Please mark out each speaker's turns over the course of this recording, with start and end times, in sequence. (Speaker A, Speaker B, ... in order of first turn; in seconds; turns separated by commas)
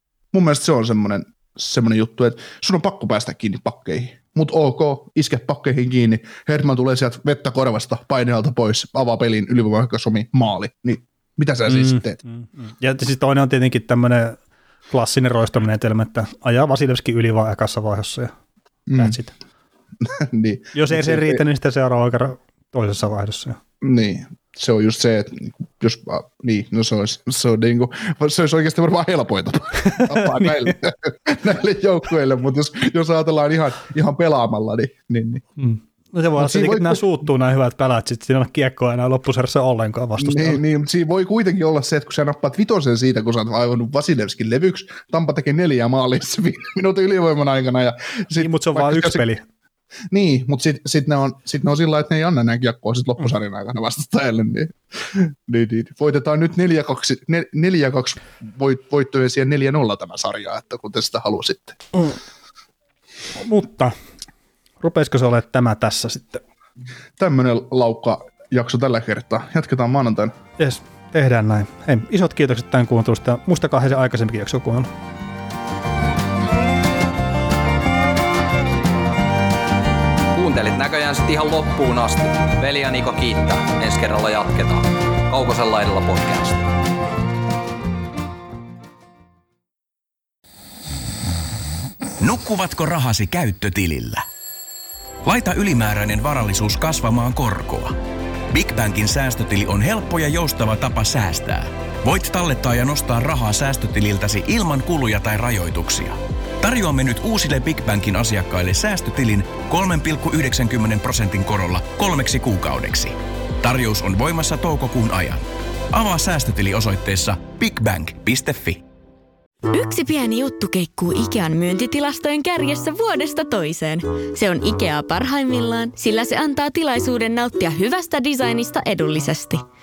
Speaker A: 0.3-12.2, Speaker B: 11.7-14.4, Speaker B: 14.9-18.3, Speaker A: 18.9-19.2, Speaker B: 18.9-19.3, Speaker A: 20.0-21.4, Speaker B: 20.7-23.6, Speaker A: 23.8-35.4, Speaker B: 29.8-30.7, Speaker B: 35.6-40.6, Speaker A: 36.4-37.1, Speaker A: 40.2-49.3, Speaker B: 48.4-49.4, Speaker A: 50.1-61.8, Speaker B: 63.4-63.9, Speaker B: 64.8-66.4, Speaker A: 67.2-70.3, Speaker B: 70.6-74.9, Speaker C: 80.3-86.7, Speaker D: 92.2-94.2, Speaker D: 95.2-97.9, Speaker D: 98.5-118.8, Speaker E: 119.7-129.6